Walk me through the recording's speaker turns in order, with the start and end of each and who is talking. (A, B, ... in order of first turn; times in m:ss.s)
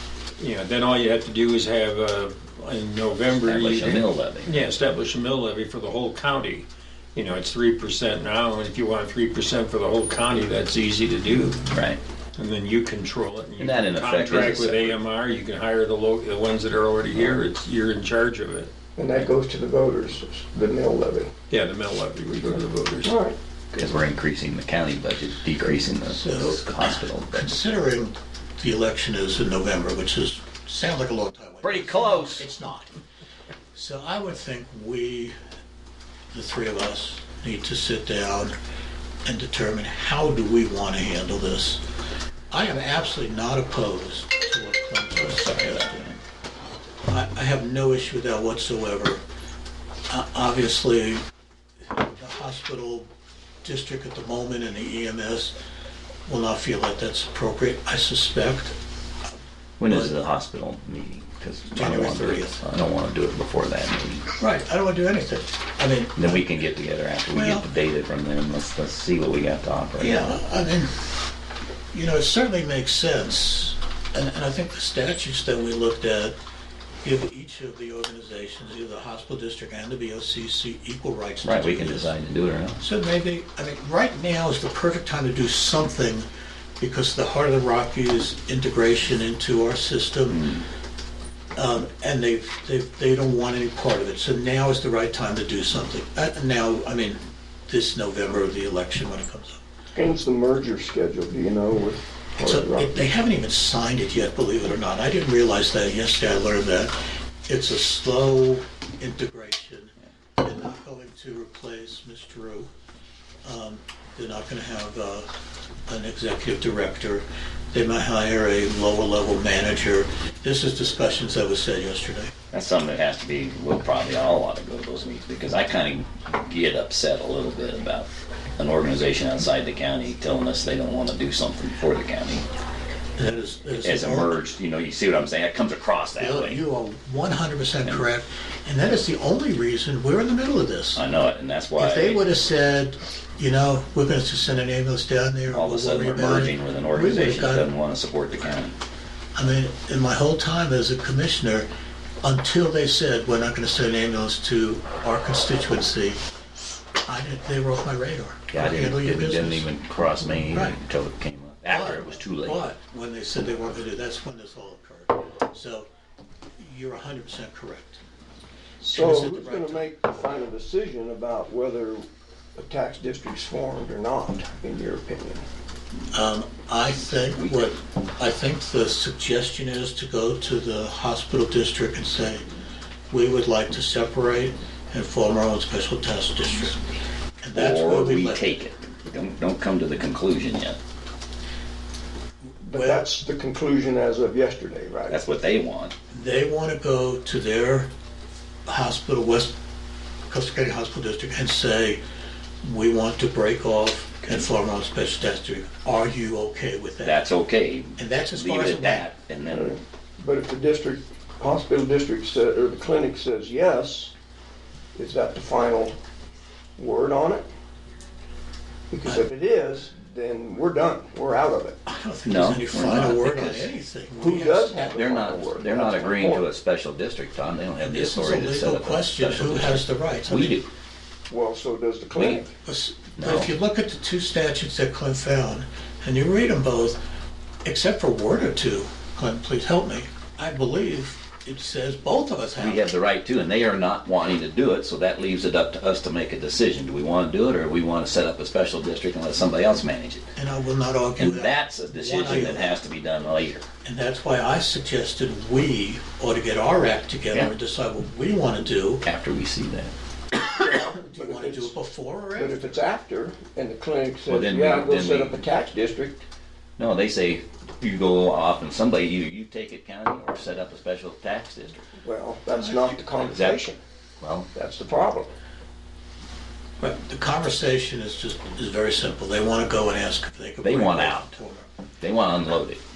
0:00.4-0:11.6 A
0:03.3-0:04.5 B
0:11.7-0:12.0 B
0:12.4-0:18.7 A
0:13.6-0:15.0 B
0:17.1-0:17.4 B
0:19.0-0:21.3 C
0:21.5-0:23.2 A
0:23.0-0:23.4 C
0:23.7-0:27.5 B
0:26.0-0:32.9 D
0:31.6-0:32.5 B
0:33.7-0:35.3 D
0:36.3-0:38.5 D
0:39.2-0:41.8 D
0:42.5-0:46.2 D
0:45.4-0:46.1 B
0:47.0-0:49.2 D
0:50.1-0:51.2 D
0:51.9-0:53.1 D
0:53.6-0:55.5 D
0:56.2-0:58.8 D
0:59.8-1:04.3 B
0:59.9-1:00.1 D
1:01.7-1:02.6 D
1:04.4-1:06.5 D
1:06.2-1:10.4 B
1:07.3-1:07.7 D
1:10.0-1:11.0 D
1:11.9-1:16.4 D
1:17.0-1:22.1 D
1:21.4-1:22.8 B
1:22.8-1:26.3 D
1:26.8-1:30.4 D
1:30.3-1:30.6 B
1:31.6-1:39.6 D
1:39.9-1:43.0 C
1:42.4-1:47.0 D
1:47.5-1:52.7 D
1:53.4-1:55.3 D
1:55.9-2:02.3 D
2:02.5-2:12.4 B
2:13.2-2:14.4 D
2:13.8-2:16.6 B
2:16.2-2:21.0 D
2:20.9-2:22.2 B
2:21.8-2:27.7 D
2:25.5-2:28.8 B
2:29.3-2:31.7 D
2:32.2-2:36.2 D
2:37.0-2:39.7 D
2:38.5-2:42.7 B
2:40.5-2:40.8 D
2:41.6-2:45.9 D
2:46.6-2:48.0 D
2:48.8-2:55.4 C
2:48.9-2:49.9 D
2:56.1-3:02.4 D
2:57.1-2:57.7 B
3:03.1-3:06.8 D
3:07.4-3:08.5 D
3:07.5-3:10.8 B
3:12.6-3:15.2 C
3:12.7-3:13.1 D
3:15.1-3:15.9 B
3:16.1-3:17.9 D
3:18.6-3:19.5 D
3:20.3-3:22.0 D
3:22.6-3:27.2 D
3:27.0-3:29.8 B
3:28.0-3:29.1 D
3:29.5-3:34.1 C
3:34.9-3:36.0 C
3:36.8-3:37.4 C
3:38.9-3:41.8 C
3:41.8-3:45.1 D
3:42.2-3:43.7 B
3:44.2-3:46.5 C
3:44.9-3:50.7 B
3:47.8-3:50.6 D
3:51.3-3:52.5 C
3:52.1-3:52.4 B
3:52.6-3:57.0 D
3:53.2-3:53.5 B
3:57.6-4:02.9 D
4:02.6-4:10.3 B
4:10.4-4:12.7 D
4:11.2-4:13.6 B
4:13.8-4:19.0 D
4:19.0-4:19.9 B
4:20.4-4:22.8 D
4:20.5-4:21.8 C
4:22.4-4:26.2 C
4:24.2-4:25.4 B
4:26.8-4:31.8 B
4:32.0-4:33.8 C
4:32.6-4:32.9 D
4:33.2-4:33.6 B
4:34.2-4:34.5 B
4:34.5-4:35.3 C
4:36.8-4:41.7 D
4:40.6-4:41.3 B
4:42.0-4:42.8 B